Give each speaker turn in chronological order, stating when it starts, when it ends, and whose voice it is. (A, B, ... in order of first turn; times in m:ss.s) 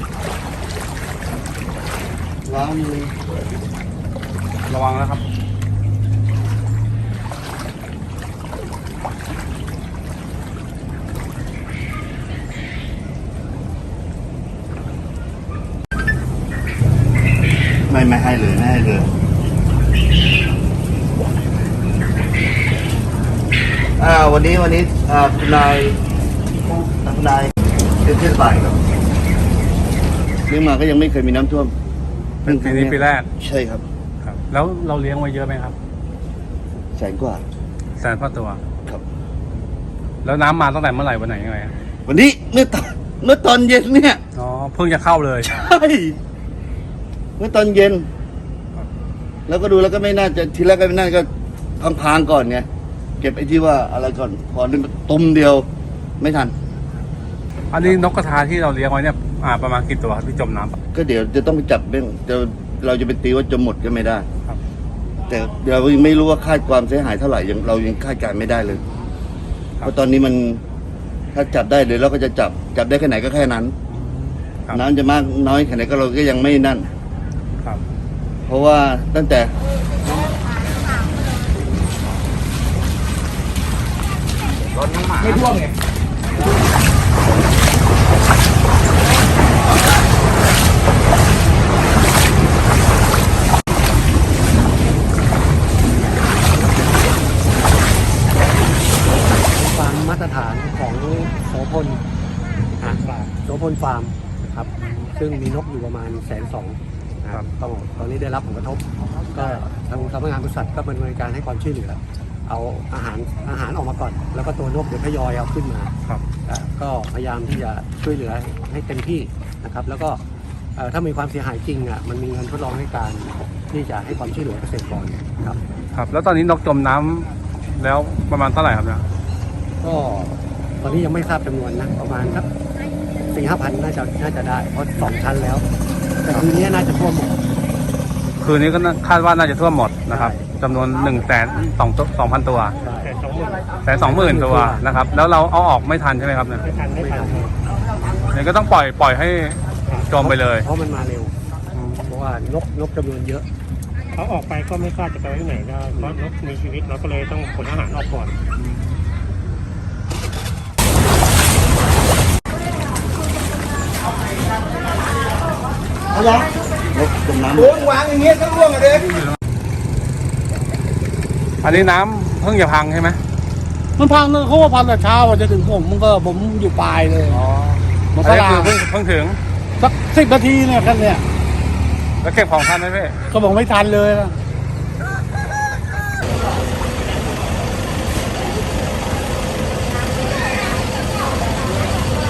0:02.5-0:03.2 A
0:04.7-0:05.2 B
0:17.9-0:19.1 A
0:24.0-0:26.0 A
0:26.6-0:27.5 A
0:28.0-0:28.8 A
0:30.5-0:31.7 A
0:32.4-0:33.3 B
0:32.5-0:33.8 A
0:34.2-0:35.8 B
0:37.0-0:37.4 A
0:38.0-0:38.6 B
0:40.2-0:41.7 B
0:42.1-0:44.2 A
0:44.4-0:45.5 B
0:45.5-0:46.2 A
0:47.4-0:48.1 A
0:49.5-0:52.7 A
0:53.2-0:55.7 A
0:56.2-0:56.5 A
0:57.7-1:00.8 B
1:00.9-1:04.3 A
1:05.3-1:08.8 A
1:09.8-1:10.6 A
1:11.3-1:13.8 A
1:13.9-1:14.9 B
1:14.7-1:16.9 A
1:18.5-1:19.5 A
1:39.5-1:42.0 C
1:42.8-1:55.9 C
1:44.8-1:45.1 B
1:56.5-2:00.2 C
2:00.8-2:05.6 C
2:05.4-2:09.0 B
2:09.8-2:12.5 C
2:13.3-2:15.7 C
2:16.3-2:17.4 C
2:18.4-2:22.8 B
2:20.1-2:20.4 C
2:22.8-2:23.1 C
2:23.1-2:23.7 D
2:23.8-2:26.6 B
2:24.0-2:24.9 C
2:26.7-2:27.5 D
2:27.0-2:27.5 C
2:28.3-2:30.7 B
2:30.1-2:31.3 C
2:31.7-2:32.2 B
2:32.1-2:33.5 C
2:34.1-2:38.4 D
2:38.6-2:39.0 B
2:46.1-2:48.8 A
2:51.6-2:53.2 B
2:54.0-2:57.4 E
2:57.3-2:59.4 B
2:58.2-2:58.8 E
2:59.8-3:01.2 E
3:02.2-3:03.2 B
3:03.3-3:04.4 E